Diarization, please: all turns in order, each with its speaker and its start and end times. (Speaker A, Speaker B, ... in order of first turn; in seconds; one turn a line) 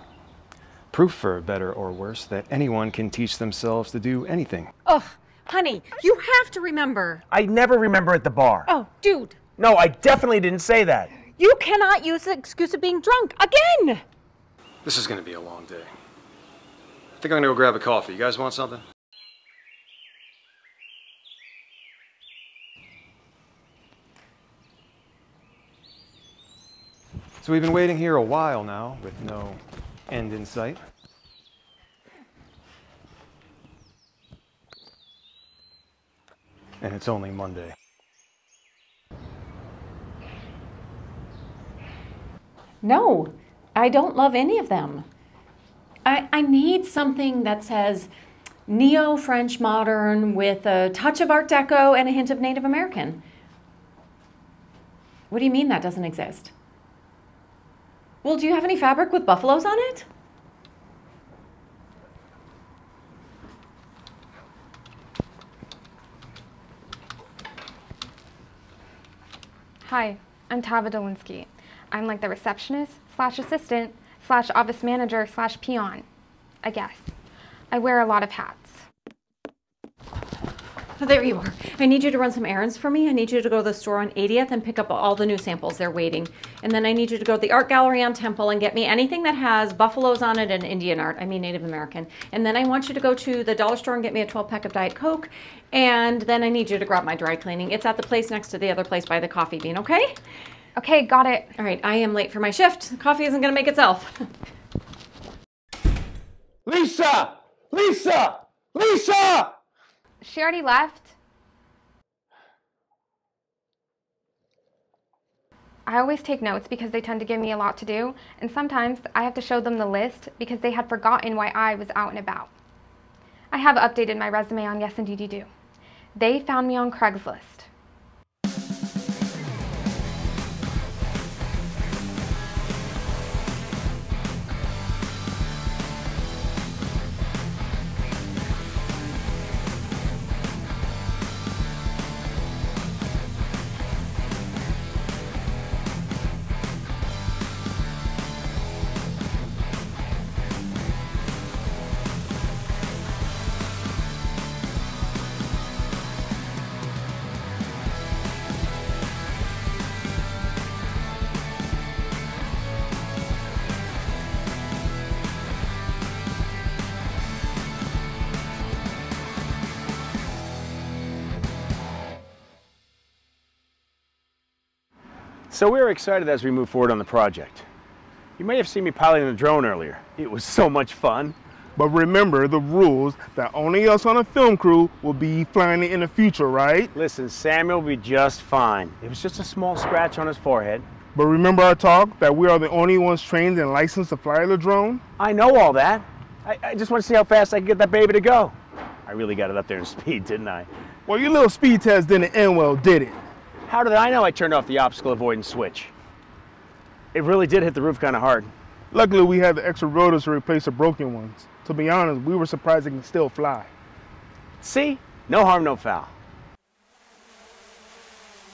Speaker A: 0.9-4.7
Speaker B: 4.8-7.2
Speaker C: 7.3-8.7
Speaker B: 8.7-9.4
Speaker C: 9.6-11.1
Speaker B: 11.4-14.0
Speaker A: 14.8-15.9
Speaker A: 17.2-18.8
Speaker A: 27.4-30.8
Speaker A: 36.8-37.7
Speaker B: 42.8-45.0
Speaker B: 46.0-48.1
Speaker B: 48.7-53.2
Speaker B: 55.3-56.5
Speaker B: 58.2-60.0
Speaker D: 69.8-76.0
Speaker D: 76.6-77.1
Speaker D: 77.7-78.8
Speaker B: 81.0-100.2
Speaker D: 100.8-101.5
Speaker B: 101.6-104.2
Speaker C: 106.7-109.5
Speaker D: 110.2-111.1
Speaker D: 115.8-122.5
Speaker D: 123.5-125.5
Speaker D: 126.2-127.7
Speaker C: 175.5-177.7
Speaker C: 178.4-181.3
Speaker E: 181.8-186.9
Speaker C: 186.9-190.9
Speaker E: 191.1-195.0
Speaker C: 195.2-198.5
Speaker C: 199.1-200.7
Speaker E: 201.1-203.2
Speaker C: 203.7-205.9
Speaker C: 207.1-208.5
Speaker E: 208.9-213.7
Speaker C: 214.6-216.1